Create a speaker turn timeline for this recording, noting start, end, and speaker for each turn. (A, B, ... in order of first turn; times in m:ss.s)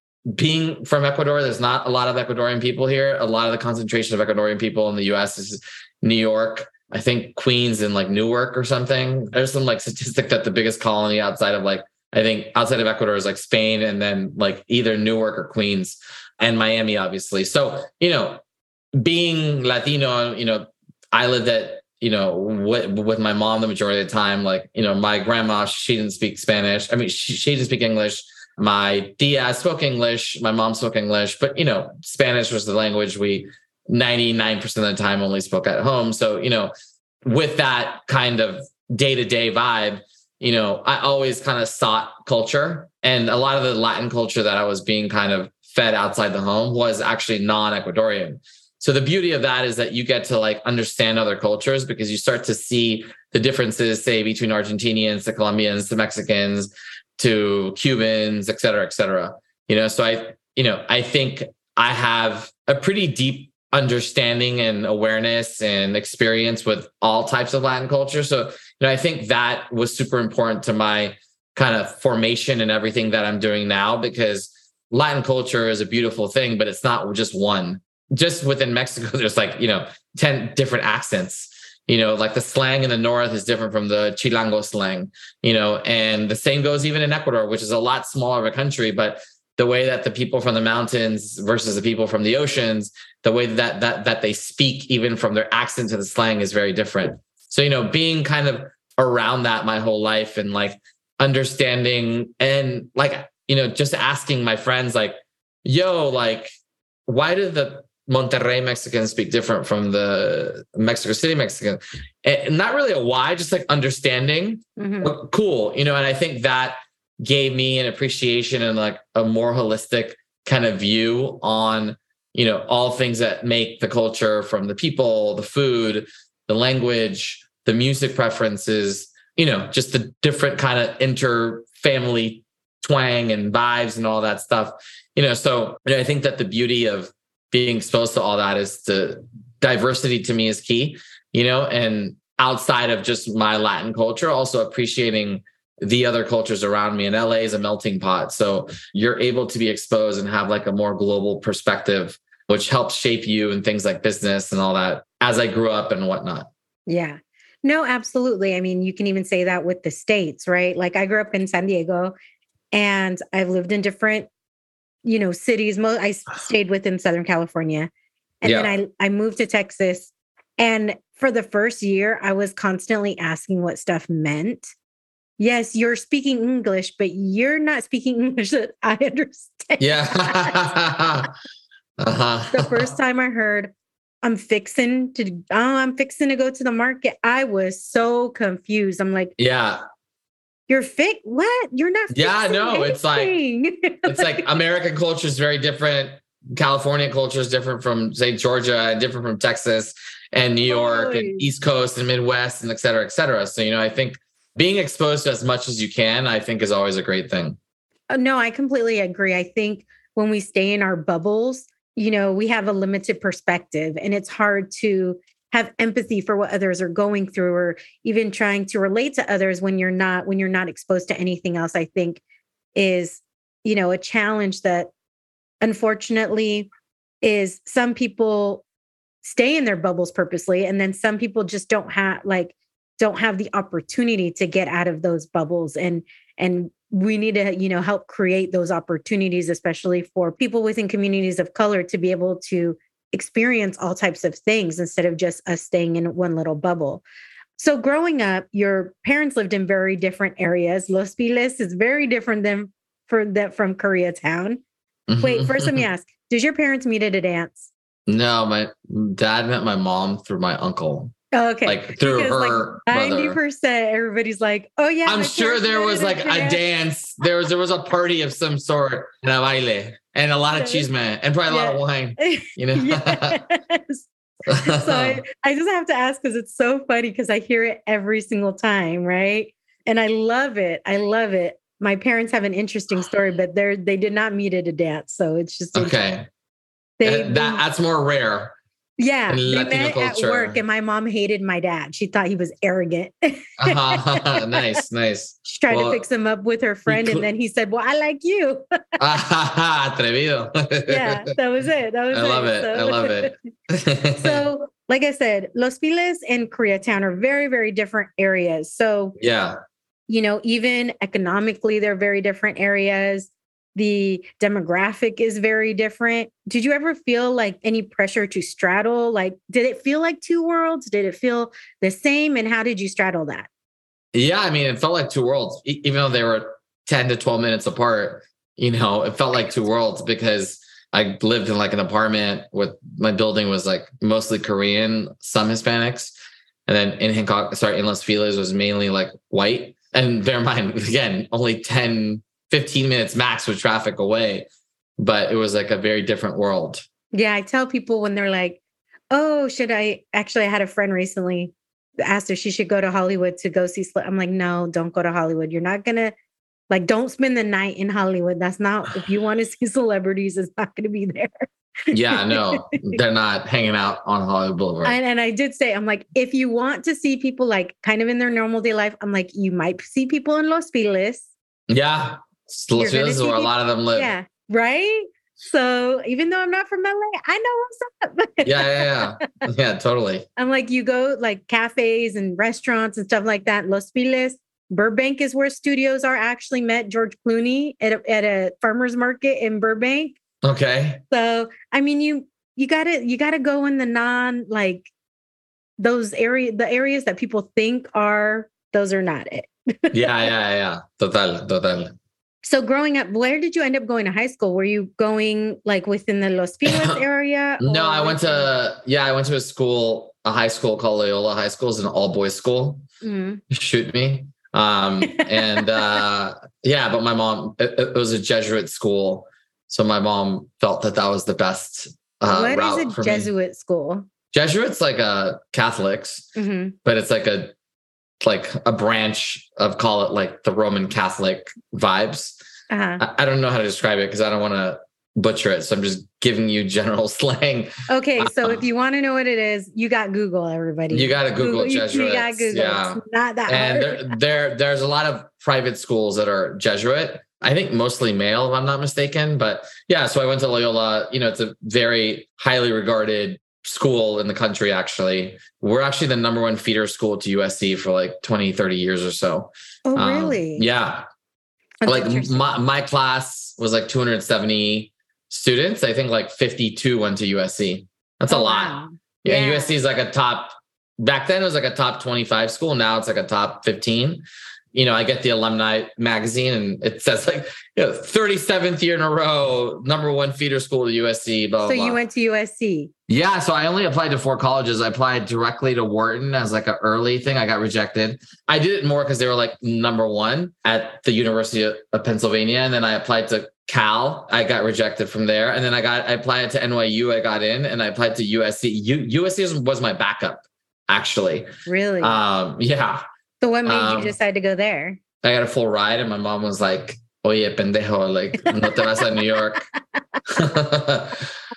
0:00.3-0:18.4 A
0:19.0-0:36.7 A
0:37.2-1:46.5 A
1:47.1-2:36.5 A
1:54.8-1:55.1 B
2:36.9-2:42.1 B
2:42.7-2:44.3 B
2:45.0-2:47.9 B
2:48.4-2:54.7 B
2:48.4-2:48.7 A
2:55.4-3:00.8 B
2:59.8-3:01.3 A
3:02.0-3:02.9 A
3:02.5-3:09.3 B
3:09.4-3:09.8 A
3:10.7-3:14.4 B
3:12.1-3:13.3 A
3:14.0-3:27.6 A
3:20.7-3:21.4 B
3:28.1-3:42.2 B
3:42.8-3:44.9 B
3:45.6-3:46.7 B
3:47.2-3:48.6 B
3:49.2-4:07.0 B
4:07.6-4:14.6 B
4:15.1-4:15.8 A
4:15.2-4:17.7 B
4:18.1-4:21.1 A
4:21.3-4:26.6 B
4:21.6-4:23.4 A
4:25.1-4:33.4 A
4:30.6-4:30.9 B
4:31.5-4:46.0 B
4:34.5-4:35.2 A
4:45.8-4:46.3 A
4:47.0-4:47.6 B
4:47.0-4:48.6 A
4:49.0-4:54.7 B
4:49.3-4:50.6 A
4:53.6-4:56.0 A
4:55.5-4:58.6 B
4:56.9-4:57.2 A
4:59.0-5:01.3 A
5:00.9-5:03.3 B
5:02.1-5:04.4 A
5:04.2-5:09.2 B
5:09.2-5:09.6 A
5:10.1-5:23.5 B
5:24.1-5:36.1 A
5:36.7-5:44.5 A
5:45.0-5:46.8 A
5:47.1-5:48.6 B
5:49.1-5:56.1 B
5:56.7-6:01.5 B
6:01.9-6:05.0 A
6:02.1-6:03.0 B
6:04.8-6:11.3 B
6:11.7-6:14.1 A
6:12.8-6:19.5 B
6:18.4-6:20.2 A
6:20.4-6:30.2 B
6:30.4-6:31.0 A
6:31.1-6:34.9 B
6:35.8-6:40.0 B
6:39.9-6:42.0 A
6:42.4-6:48.5 B
6:46.6-6:47.0 A
6:47.6-6:52.8 A
6:53.0-6:53.4 B
6:53.5-7:03.3 A
6:55.1-6:55.9 B
7:02.3-7:04.0 B
7:04.3-7:06.3 A
7:06.4-7:06.8 B
7:06.8-7:07.5 A
7:08.2-7:12.4 A
7:12.7-7:13.0 B
7:13.0-7:18.6 A
7:17.9-7:24.1 B
7:20.9-7:41.0 A
7:39.9-7:40.7 B
7:41.8-7:42.5 B
7:41.9-8:02.0 A
7:48.3-7:49.8 B
8:01.6-8:02.9 B
8:03.1-8:21.5 A
8:21.7-8:22.2 B
8:22.0-8:23.0 A
8:23.4-8:25.0 B
8:23.7-8:24.2 A
8:25.2-8:29.7 A
8:28.4-8:29.1 B
8:30.3-8:31.3 A